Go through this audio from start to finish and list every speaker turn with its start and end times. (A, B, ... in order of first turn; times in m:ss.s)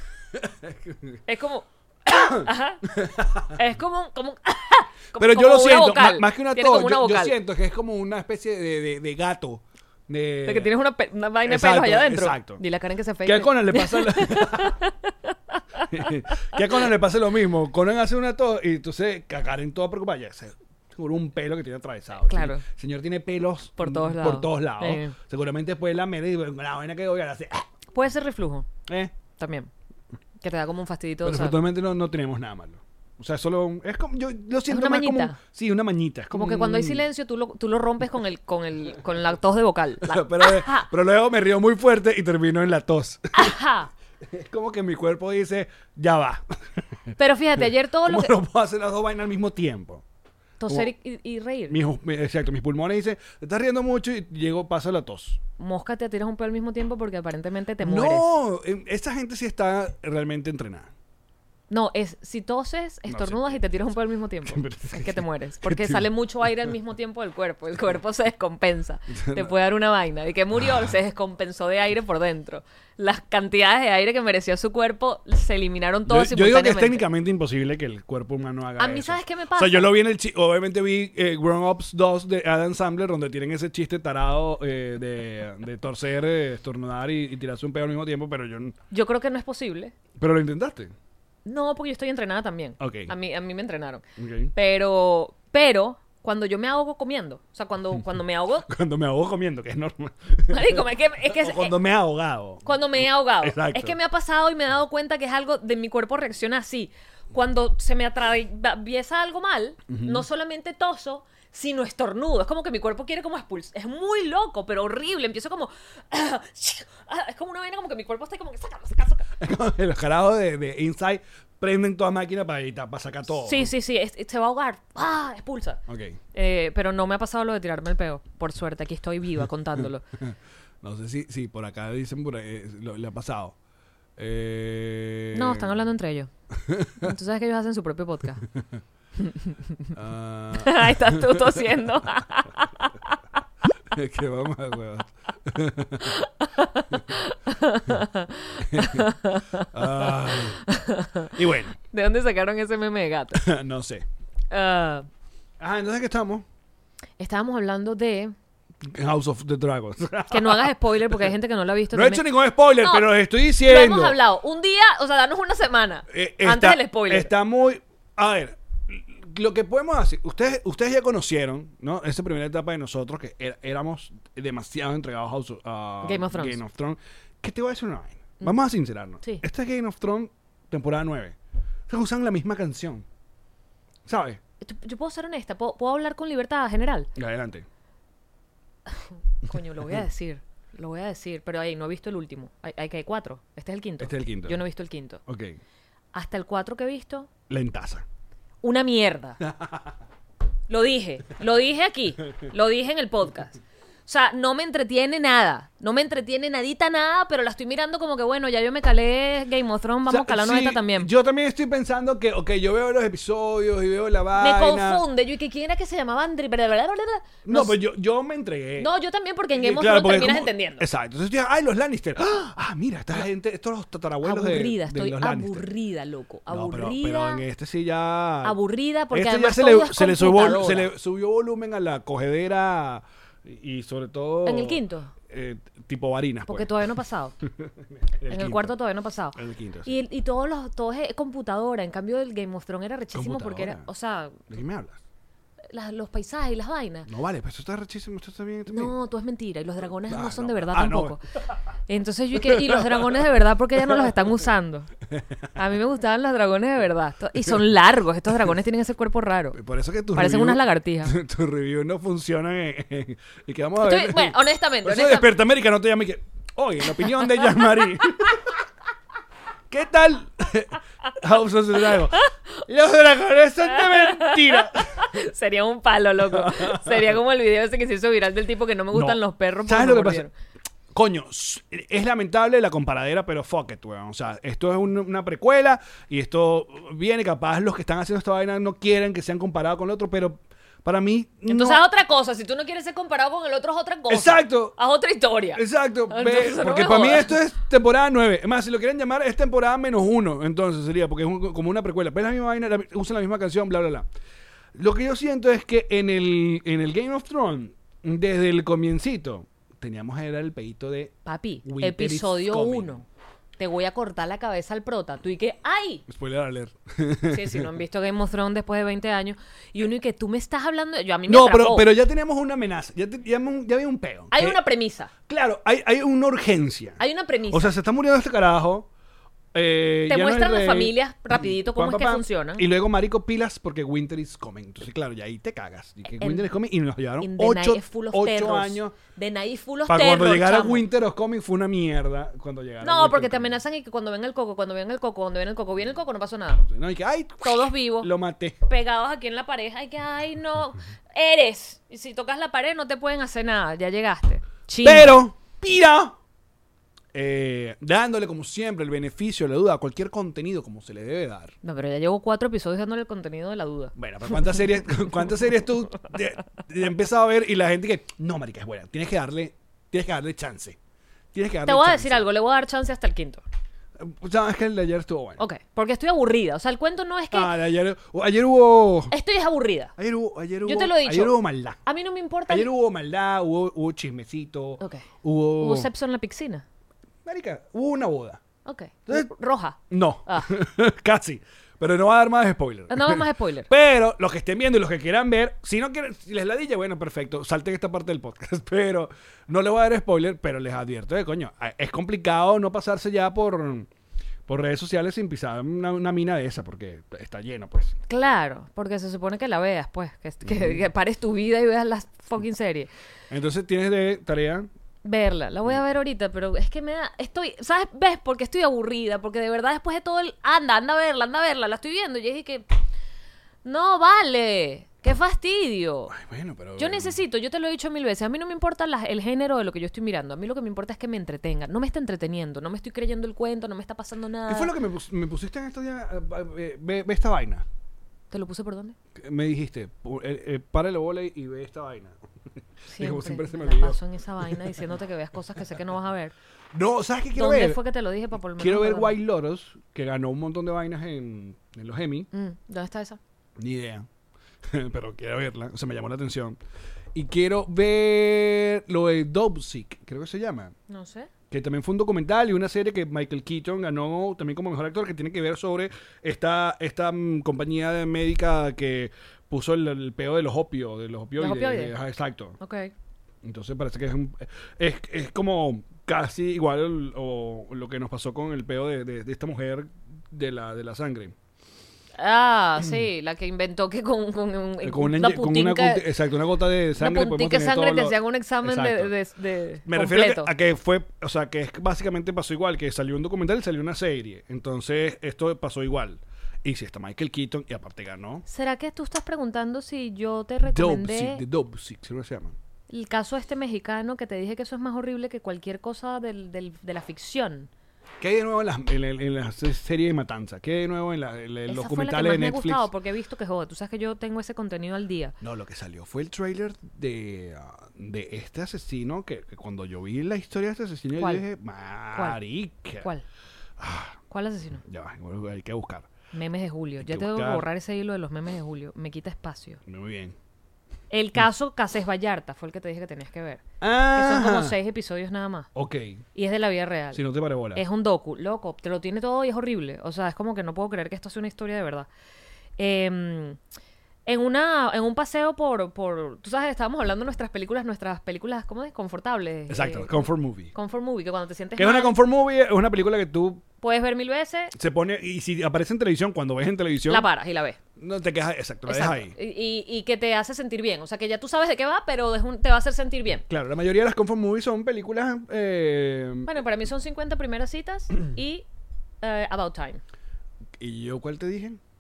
0:00.3-0:01.2 A
0:01.3-0:02.9 B
0:02.1-0:02.5 A
0:03.0-0:03.6 A
0:03.5-0:07.4 B
0:05.2-0:10.7 A
0:10.5-0:15.1 B
0:11.4-0:12.6 A
0:13.2-0:14.8 A
0:15.9-0:27.7 A
0:22.3-0:22.6 B
0:23.8-0:25.2 B
0:27.9-0:28.7 B
0:28.9-0:29.2 A
0:29.4-0:29.7 B
0:30.4-0:31.6 B
0:31.2-0:37.0 A
0:34.7-0:35.4 B
0:36.3-0:40.9 B
0:40.0-0:43.5 A
0:43.4-0:43.9 B
0:44.2-0:47.1 A
0:47.2-0:48.3 B
0:48.1-0:50.0 A
0:50.6-0:51.8 B
0:50.7-0:50.9 A
0:51.7-0:55.4 A
0:55.6-0:58.3 B
0:57.8-1:00.9 A
1:01.7-1:17.0 B
1:03.1-1:03.6 A
1:04.5-1:06.1 A
1:09.2-1:09.5 A
1:10.6-1:10.9 A
1:16.1-1:28.8 A
1:18.8-1:19.9 B
1:28.9-1:30.0 B
1:30.2-1:30.9 A
1:31.4-1:34.0 B
1:32.8-1:33.1 A
1:34.2-1:34.5 A
1:34.6-1:38.7 B
1:38.7-1:44.0 A
1:40.5-1:41.7 B
1:42.7-1:59.4 B
1:49.9-1:50.3 A
1:59.4-2:03.7 A
2:03.4-2:05.8 B
2:05.9-2:06.2 A
2:06.3-2:10.0 B
2:10.2-2:13.6 A
2:14.2-2:15.7 A
2:15.3-2:16.3 B
2:16.6-2:17.1 A
2:17.0-2:18.4 B
2:19.2-2:19.5 B
2:19.9-2:21.8 A
2:20.6-2:23.2 B
2:23.9-2:26.2 A
2:26.0-2:31.4 B
2:28.6-2:29.0 A
2:29.7-2:30.6 A
2:31.3-2:31.8 A
2:31.9-2:33.5 B
2:33.4-2:34.0 A
2:34.5-2:35.1 B
2:35.6-2:36.4 A
2:37.2-2:38.3 B
2:38.8-2:41.2 A
2:40.3-2:43.1 B
2:41.9-2:44.2 A
2:43.6-2:47.3 B
2:46.1-3:01.4 A
2:56.0-2:56.6 B
3:01.9-3:03.1 A
3:04.1-3:04.4 A
3:04.6-3:07.1 B
3:07.2-3:07.7 A
3:08.9-3:15.2 B
3:09.5-3:10.0 A
3:14.0-3:14.6 A
3:15.3-3:15.6 A
3:16.1-3:17.3 B
3:17.5-3:18.0 A
3:18.6-3:19.4 B
3:19.4-3:19.9 A
3:20.7-3:31.1 B
3:30.1-3:35.0 A
3:34.4-3:37.8 B
3:37.4-3:38.9 A
3:38.8-3:40.9 B
3:39.6-3:45.7 A
3:44.2-3:47.4 B
3:46.5-3:48.6 A
3:48.4-3:50.9 B
3:49.1-3:56.7 A
3:54.4-3:55.1 B
3:56.5-3:57.4 B
3:57.5-3:58.8 A
3:58.3-4:04.4 B
3:59.4-4:00.0 A
4:03.1-4:03.9 A
4:04.5-4:05.0 A
4:05.7-4:07.1 B
4:07.1-4:08.9 A
4:08.7-4:11.2 B
4:10.1-4:11.2 A
4:11.9-4:14.9 B
4:12.4-4:13.2 A
4:13.8-4:14.1 A
4:15.1-4:15.5 A
4:15.6-4:19.6 B
4:19.5-4:28.4 A
4:20.2-4:21.2 B
4:23.8-4:25.3 B
4:27.0-4:27.9 B
4:29.7-4:35.1 A
4:33.8-4:40.3 B
4:36.3-4:37.1 A
4:38.9-4:40.3 A
4:40.9-4:51.8 A
4:51.5-4:57.4 B
4:54.1-4:54.8 A
4:55.5-5:04.1 A
5:04.7-5:11.1 A
5:11.3-5:13.1 B
5:11.6-5:13.0 A
5:13.6-5:16.0 B
5:16.1-5:17.7 A
5:17.3-5:21.9 B
5:21.3-5:24.6 A
5:24.3-5:25.1 B
5:25.3-5:28.9 A
5:27.0-5:27.7 B
5:29.5-5:39.0 A
5:30.1-5:32.7 B
5:36.2-5:36.5 B
5:37.2-5:40.9 B
5:39.9-5:43.6 A
5:42.8-5:46.7 B
5:46.7-5:48.6 A
5:47.4-5:48.1 B
5:48.7-5:55.2 B
5:54.8-5:56.2 A
5:57.1-6:01.5 A
6:01.6-6:03.9 B
6:04.0-6:10.8 A
6:11.3-6:12.2 A
6:11.7-6:13.4 B
6:14.0-6:15.4 A
6:15.4-6:17.5 B
6:17.3-6:19.1 A
6:19.1-6:20.0 B
6:20.0-6:21.8 A
6:20.6-6:22.7 B
6:22.5-6:25.9 A
6:24.8-6:26.6 B
6:27.2-6:28.4 A
6:28.7-6:30.5 B
6:29.9-6:43.9 A
6:32.9-6:33.7 B
6:44.5-6:48.0 A
6:48.1-6:52.9 B
6:50.4-6:50.8 A
6:53.3-6:54.7 A
6:55.0-7:02.7 B
7:03.6-7:06.1 B
7:06.1-7:07.2 A
7:06.8-7:14.7 B
7:14.5-7:17.7 A
7:18.3-7:19.0 B
7:19.2-7:22.2 A
7:22.9-7:24.7 A
7:22.9-7:26.4 B
7:26.7-7:27.8 A
7:27.4-7:29.1 B
7:28.6-7:32.3 A
7:32.3-7:33.2 B
7:33.6-7:34.1 A
7:34.6-7:36.6 A
7:37.1-7:40.7 A
7:40.9-7:41.3 B
7:41.5-7:52.6 A
7:51.4-7:52.0 B
7:52.6-7:52.9 B
7:53.4-8:01.4 A
8:02.2-8:06.1 B
8:04.8-8:09.1 A
8:07.0-8:10.5 B
8:09.8-8:18.4 A
8:18.5-8:21.4 B
8:20.7-8:22.6 A
8:22.9-8:27.7 B
8:28.2-8:32.9 A
8:31.7-8:35.4 B
8:35.4-8:43.1 A
8:41.2-8:41.4 B
8:43.8-8:44.2 A
8:44.3-8:44.8 B
8:44.8-8:46.1 A
8:46.3-8:49.8 B
8:47.0-8:47.7 A
8:49.9-8:50.4 A
8:51.1-8:53.6 B
8:53.8-8:54.8 A
8:54.2-8:55.7 B
8:55.8-8:56.2 A
8:56.4-8:57.2 B
8:57.1-8:57.8 A
8:57.8-9:02.1 B
9:02.8-9:03.6 B
9:04.3-9:12.2 B
9:09.7-9:10.7 A
9:11.8-9:13.6 A
9:13.8-9:14.7 B
9:14.8-9:17.3 A
9:17.1-9:17.8 B
9:18.0-9:19.3 A
9:18.9-9:23.4 B
9:23.5-9:26.6 A
9:26.5-9:28.6 B
9:29.2-9:30.0 B
9:30.8-9:31.8 A